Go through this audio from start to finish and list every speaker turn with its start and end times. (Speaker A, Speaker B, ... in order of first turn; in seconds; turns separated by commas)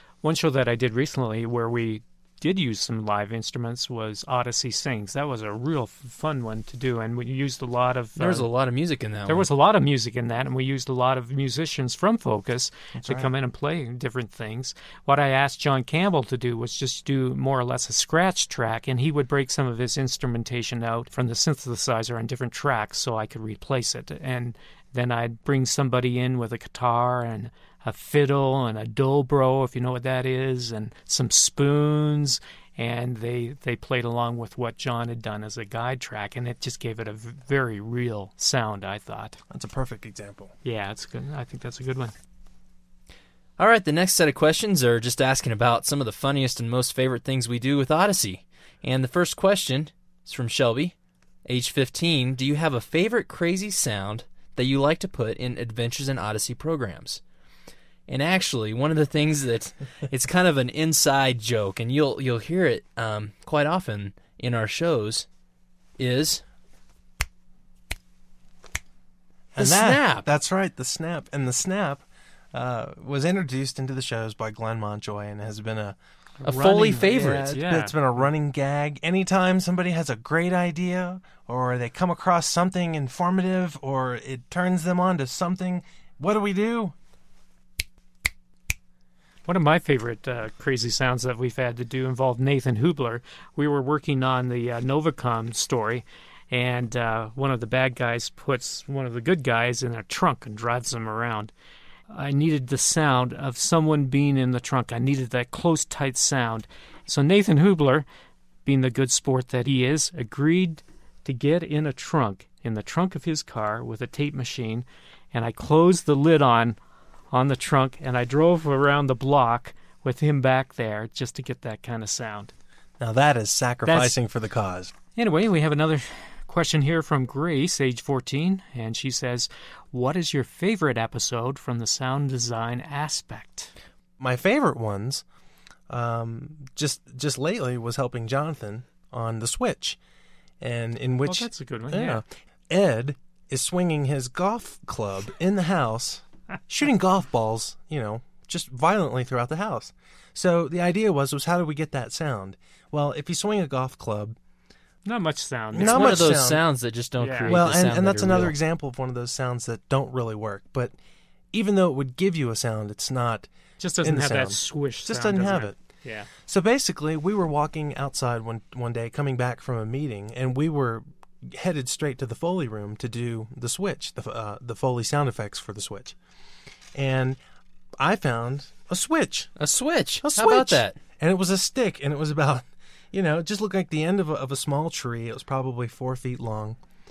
Speaker A: 0.2-8.5, Speaker B: 8.2-9.5, Speaker A: 9.2-39.4, Speaker C: 12.9-13.3, Speaker C: 39.5-40.5, Speaker A: 40.6-42.1, Speaker B: 43.6-50.9, Speaker B: 51.5-57.2, Speaker B: 58.1-65.2, Speaker B: 66.0-66.4, Speaker C: 69.5-76.0, Speaker B: 69.6-70.3, Speaker A: 76.4-78.0, Speaker B: 76.4-77.5, Speaker C: 76.7-86.9, Speaker A: 89.4-101.5, Speaker A: 102.1-108.0, Speaker A: 108.6-116.8, Speaker A: 117.3-122.5, Speaker C: 123.0-124.9, Speaker A: 123.8-124.2, Speaker A: 125.1-133.7, Speaker C: 134.2-135.2, Speaker C: 135.9-140.0, Speaker C: 140.6-154.4, Speaker A: 141.2-142.2, Speaker A: 155.0-156.3, Speaker C: 155.7-156.6, Speaker B: 155.8-158.6, Speaker A: 157.2-157.6, Speaker C: 157.5-160.9, Speaker C: 161.5-163.5, Speaker A: 163.8-166.3, Speaker C: 164.0-165.8, Speaker C: 166.4-176.1, Speaker C: 176.9-177.4, Speaker C: 178.0-179.5, Speaker B: 179.6-181.0, Speaker C: 180.2-186.8